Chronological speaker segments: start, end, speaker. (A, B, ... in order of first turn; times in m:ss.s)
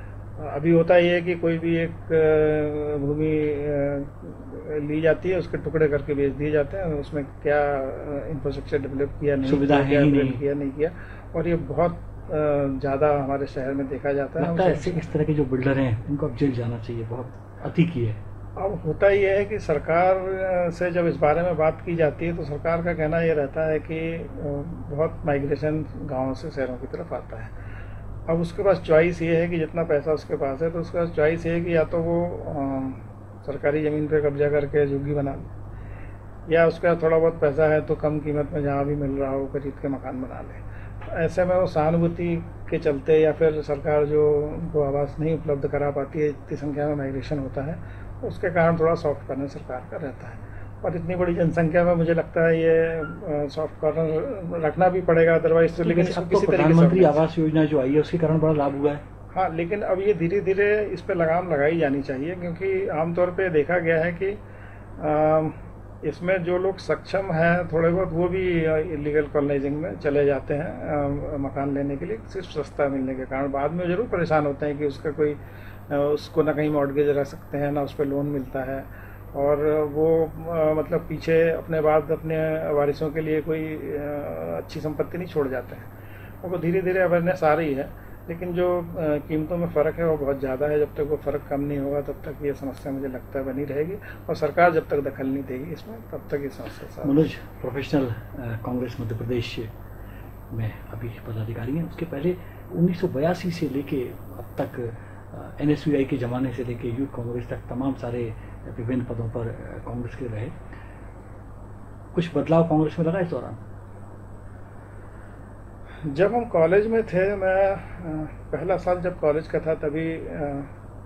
0:00.4-0:15.1 A
0:09.4-0:10.4 B
0:14.4-0:18.2 B
0:18.6-0:27.5 A
0:28.3-0:35.5 A
0:36.5-0:57.2 A
0:55.8-0:59.0 B
0:59.3-1:04.4 A
1:05.0-1:15.4 A
1:15.9-1:25.9 A
1:26.4-1:37.3 A
1:37.0-1:39.7 B
1:40.5-1:50.6 B
1:52.1-1:53.6 B
1:56.1-2:00.7 A